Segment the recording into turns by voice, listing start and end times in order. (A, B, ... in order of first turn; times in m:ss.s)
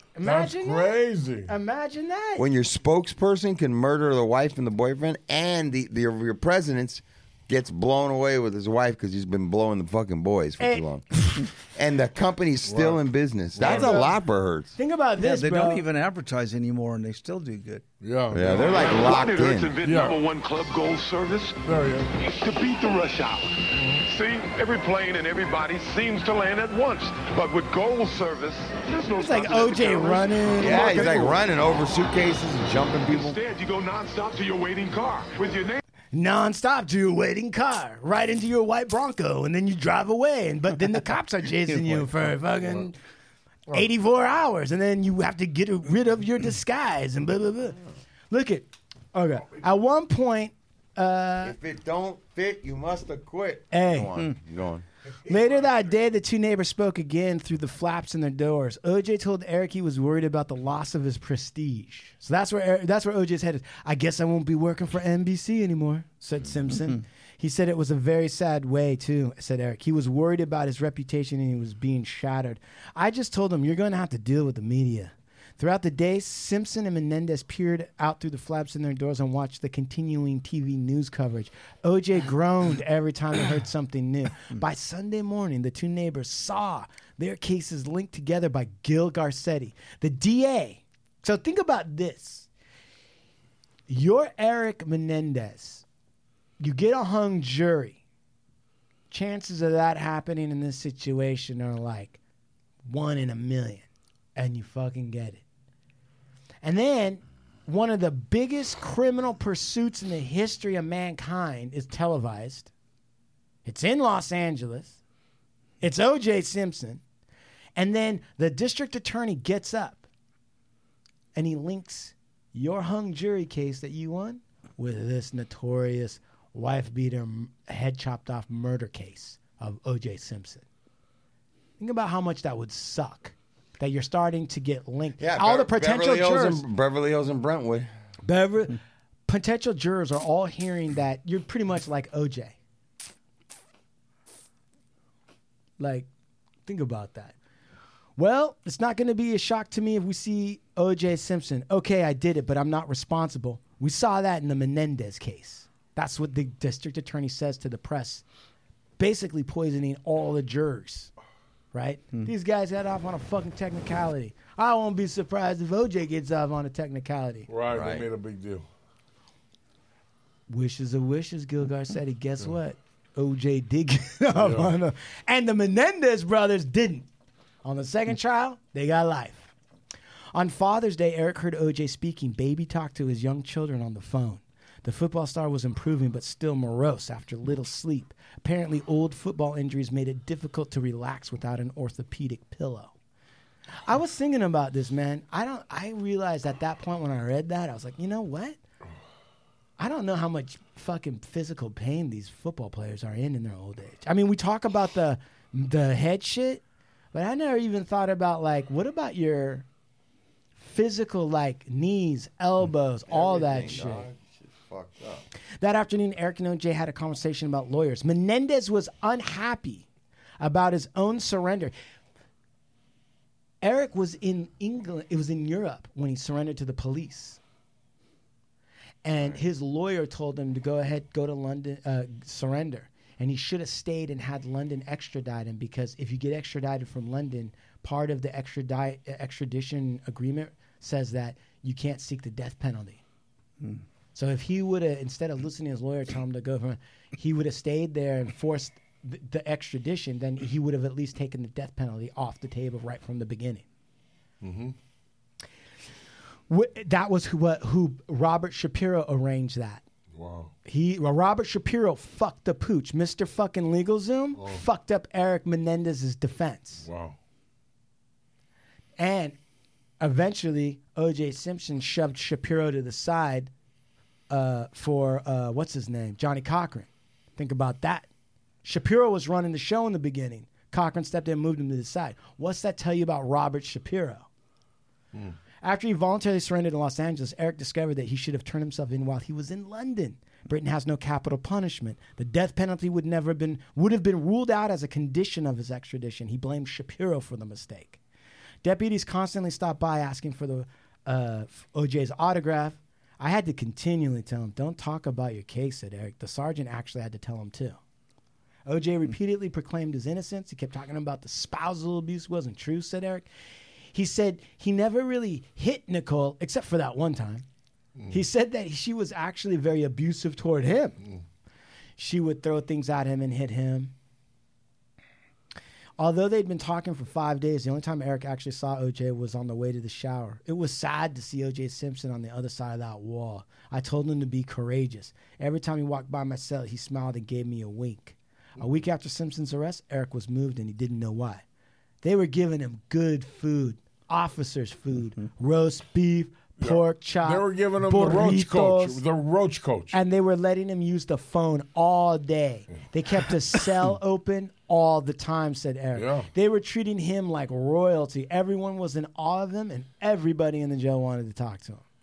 0:00.2-0:01.0 A
0:00.2-0:01.5 B
0:01.5-0:02.4 A
0:02.4-0:14.7 C
0:10.6-0:11.3 A
0:12.7-0:13.0 B
0:13.5-0:14.0 B
0:13.6-0:14.2 A
0:14.8-0:15.8 A
0:15.2-0:17.8 D
0:18.0-0:19.1 B
0:18.3-0:19.8 C
0:18.6-0:21.6 E
0:19.8-0:20.2 B
0:21.6-0:22.1 B
0:22.2-0:31.1 E
0:23.8-0:24.0 B
0:29.1-0:31.4 A
0:30.6-0:33.4 C
0:33.0-0:35.8 E
0:36.1-0:43.0 A
0:43.7-0:51.6 A
0:51.4-0:54.8 C
0:53.7-0:54.1 A
0:55.3-1:32.5 A
1:33.9-1:35.8 A
1:36.6-1:38.0 A
1:39.1-1:42.2 A
1:42.8-1:45.4 A
1:46.6-1:52.7 A
1:53.6-1:55.0 A
1:55.8-1:57.0 A
1:57.8-2:00.0 A
2:01.4-2:10.6 A
2:11.8-2:16.6 A
2:15.2-2:17.9 C
2:18.2-2:22.6 A
2:25.8-2:26.1 A
2:26.7-2:27.3 A
2:28.2-2:38.2 A
2:39.0-2:41.1 A
2:41.7-2:47.5 A
2:47.5-2:48.6 B
2:47.7-2:48.1 C
2:50.5-2:57.1 A
2:54.4-2:54.7 B
2:57.6-2:59.5 A
3:00.3-3:12.9 A
3:13.9-3:18.6 A
3:19.8-3:26.6 A
3:27.1-3:29.7 A
3:30.6-3:34.1 A
3:33.1-3:35.2 C
3:35.6-3:39.9 A
3:40.4-3:41.7 A
3:43.6-3:47.4 A
3:49.0-4:03.0 A
4:04.2-4:13.6 A
4:14.4-4:14.8 B
4:16.5-4:19.8 A
4:20.1-4:20.5 B
4:20.6-4:26.9 A
4:26.8-4:27.2 B
4:29.0-4:29.4 A
4:30.0-4:33.5 A
4:34.3-4:38.1 A
4:38.6-4:44.3 A
4:45.6-4:58.0 A
4:58.6-5:07.8 A
5:08.7-5:13.3 A
5:13.9-5:17.4 A
5:18.1-5:21.0 A
5:22.0-5:23.9 A
5:26.0-5:41.4 A
5:42.0-5:49.0 A
5:46.6-5:49.9 B
5:49.9-6:01.8 A
5:56.0-5:56.3 B